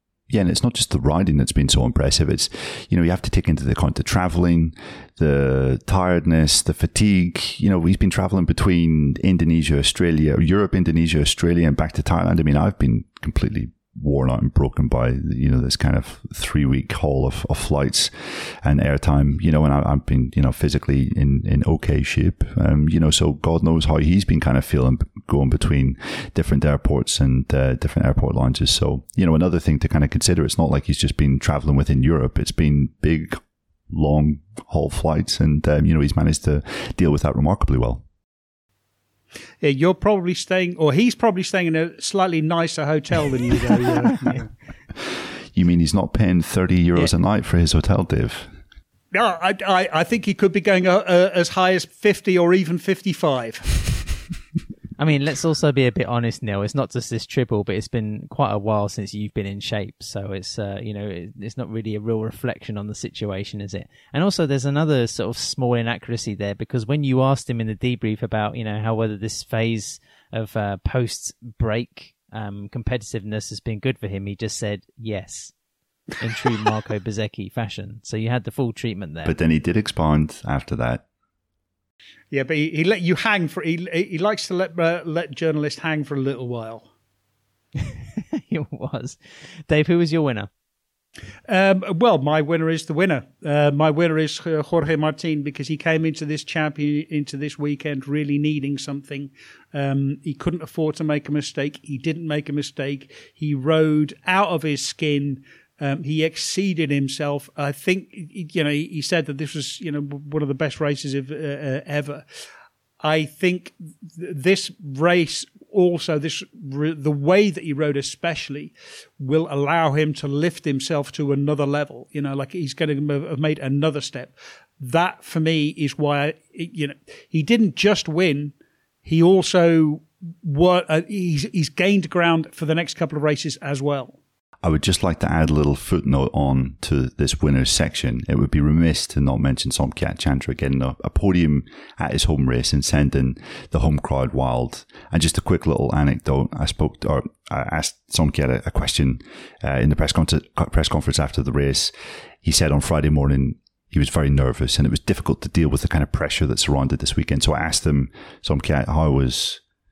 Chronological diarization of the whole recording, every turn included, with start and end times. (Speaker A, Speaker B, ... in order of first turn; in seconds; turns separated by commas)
Speaker A: 0.3-38.0, Speaker B: 39.6-44.5, Speaker A: 45.1-48.5, Speaker B: 49.1-53.9, Speaker C: 55.0-75.5, Speaker C: 76.2-79.3, Speaker A: 79.2-81.0, Speaker B: 82.3-86.9, Speaker C: 87.8-90.5, Speaker B: 91.5-112.2, Speaker B: 113.0-128.5, Speaker B: 129.0-134.2, Speaker A: 134.6-159.6